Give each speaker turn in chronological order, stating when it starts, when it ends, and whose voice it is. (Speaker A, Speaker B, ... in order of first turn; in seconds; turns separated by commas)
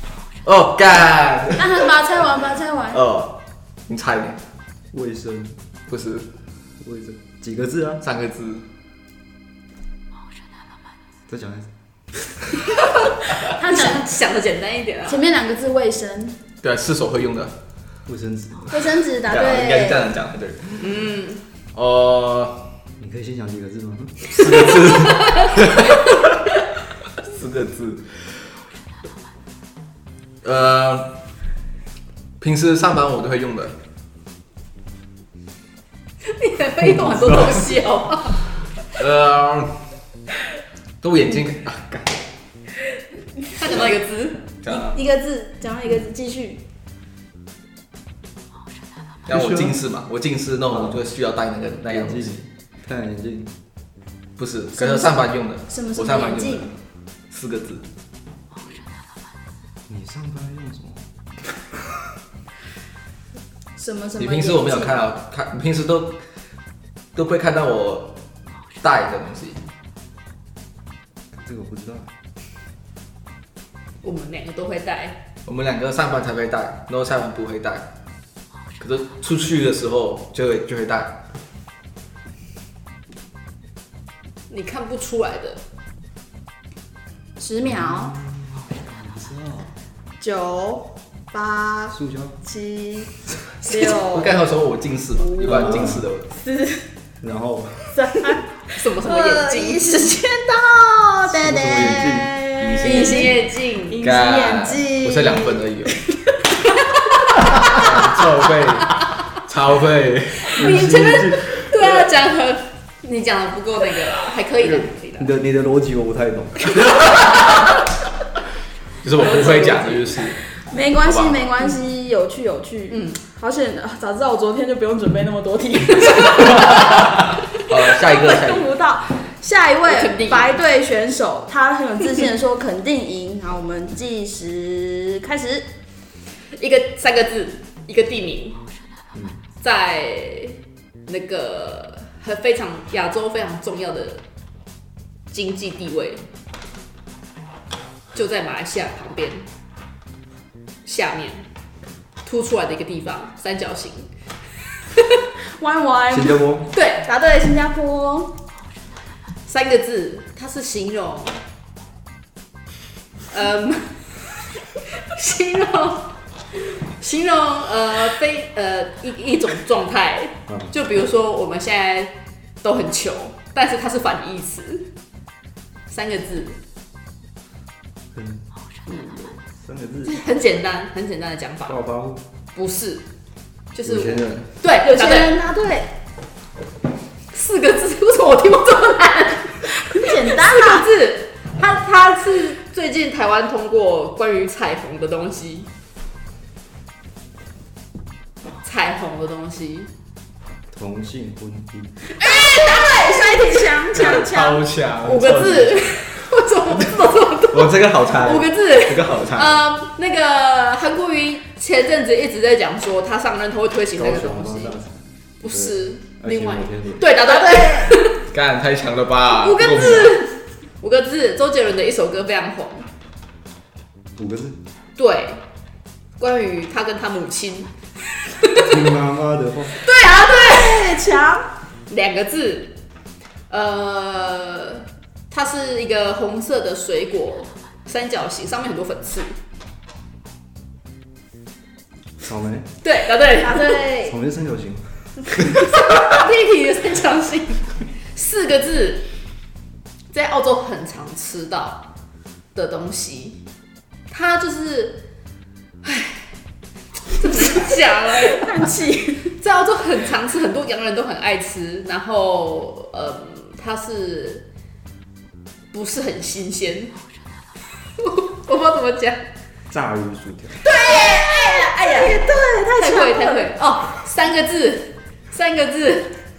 Speaker A: 0.4-1.8, Speaker B: 1.6-3.0, Speaker A: 2.9-4.4, Speaker C: 4.9-5.6, Speaker A: 5.9-6.3, Speaker C: 6.8-8.0, Speaker A: 8.0-8.7, Speaker C: 11.3-11.7, Speaker B: 13.4-14.1, Speaker D: 13.6-15.3, Speaker B: 15.1-16.4, Speaker A: 16.6-17.6, Speaker C: 18.1-18.9, Speaker B: 18.7-20.1, Speaker A: 19.3-21.0, Speaker D: 20.8-21.4, Speaker A: 21.7-22.7, Speaker C: 23.0-24.9, Speaker A: 24.3-26.1, Speaker D: 24.9-25.3, Speaker A: 27.2-28.5, Speaker A: 30.4-31.1, Speaker A: 32.4-33.8, Speaker D: 36.3-38.4, Speaker A: 38.9-39.7, Speaker A: 41.0-42.2, Speaker D: 43.5-44.4, Speaker A: 43.6-43.9, Speaker A: 44.6-45.0, Speaker B: 44.7-46.6, Speaker C: 49.3-49.8, Speaker A: 49.3-52.3, Speaker C: 50.7-51.0, Speaker C: 51.9-53.5, Speaker A: 54.4-56.8, Speaker B: 54.8-56.7, Speaker A: 57.3-57.9, Speaker C: 59.9-61.1, Speaker B: 63.8-65.0, Speaker A: 64.2-66.2, Speaker A: 67.2-68.2, Speaker A: 68.8-69.6, Speaker C: 71.3-72.1, Speaker D: 74.0-75.2, Speaker A: 75.5-77.9, Speaker A: 78.8-81.2, Speaker D: 84.5-85.6, Speaker B: 87.4-88.2, Speaker C: 87.7-89.7, Speaker B: 90.2-93.1, Speaker C: 91.9-92.4, Speaker B: 93.6-94.4, Speaker A: 93.7-96.3, Speaker B: 95.2-96.8, Speaker C: 95.5-96.0, Speaker C: 97.2-98.0, Speaker B: 97.9-103.4, Speaker D: 98.8-99.9, Speaker C: 101.3-102.4, Speaker A: 102.6-103.3, Speaker D: 102.8-104.0, Speaker B: 103.9-105.9, Speaker A: 104.0-105.9, Speaker A: 107.7-111.4, Speaker D: 110.5-115.3, Speaker C: 110.5-111.8, Speaker C: 114.6-117.0, Speaker A: 119.0-120.4, Speaker D: 119.2-120.2, Speaker B: 120.7-127.2, Speaker A: 121.0-121.4, Speaker D: 122.9-123.2, Speaker A: 127.5-128.7, Speaker B: 127.9-135.7, Speaker D: 129.9-130.6, Speaker D: 136.6-138.6, Speaker C: 139.2-139.4, Speaker D: 139.6-144.2, Speaker D: 145.3-146.2, Speaker D: 148.1-149.5, Speaker D: 150.8-151.4, Speaker D: 152.2-154.1, Speaker B: 155.6-156.4, Speaker C: 156.1-156.7, Speaker D: 156.7-157.1, Speaker B: 157.0-158.4, Speaker D: 159.5-161.4, Speaker D: 163.3-174.9, Speaker D: 175.9-176.6, Speaker C: 178.1-178.4, Speaker C: 179.5-180.2, Speaker D: 180.1-181.8, Speaker C: 181.7-182.2, Speaker D: 182.5-183.1, Speaker D: 183.7-185.4, Speaker C: 183.8-184.5, Speaker B: 184.8-185.9, Speaker D: 187.3-195.7, Speaker B: 189.7-190.9, Speaker D: 198.6-199.9, Speaker C: 200.7-201.9, Speaker B: 202.2-204.6, Speaker A: 203.9-206.1, Speaker D: 205.0-214.8, Speaker A: 207.5-209.6, Speaker C: 213.9-217.1, Speaker D: 215.4-218.2, Speaker B: 217.2-217.9, Speaker A: 218.3-220.2, Speaker D: 219.3-222.9, Speaker C: 224.2-224.6, Speaker D: 225.0-225.4, Speaker D: 226.2-227.7, Speaker C: 228.6-229.8, Speaker B: 229.8-231.5, Speaker D: 229.9-230.9, Speaker D: 231.9-232.8, Speaker D: 233.5-239.4, Speaker C: 242.2-242.7, Speaker D: 242.8-243.8, Speaker B: 243.3-244.2, Speaker C: 244.0-245.7, Speaker D: 245.5-249.1, Speaker D: 250.1-251.9, Speaker D: 252.5-253.4, Speaker D: 254.1-255.0, Speaker D: 255.8-256.3, Speaker D: 257.1-258.5, Speaker B: 258.1-259.4, Speaker D: 259.3-264.5, Speaker D: 265.7-266.9, Speaker D: 268.0-269.2, Speaker C: 269.7-270.6, Speaker B: 270.6-273.5, Speaker D: 270.9-272.2, Speaker D: 272.8-276.2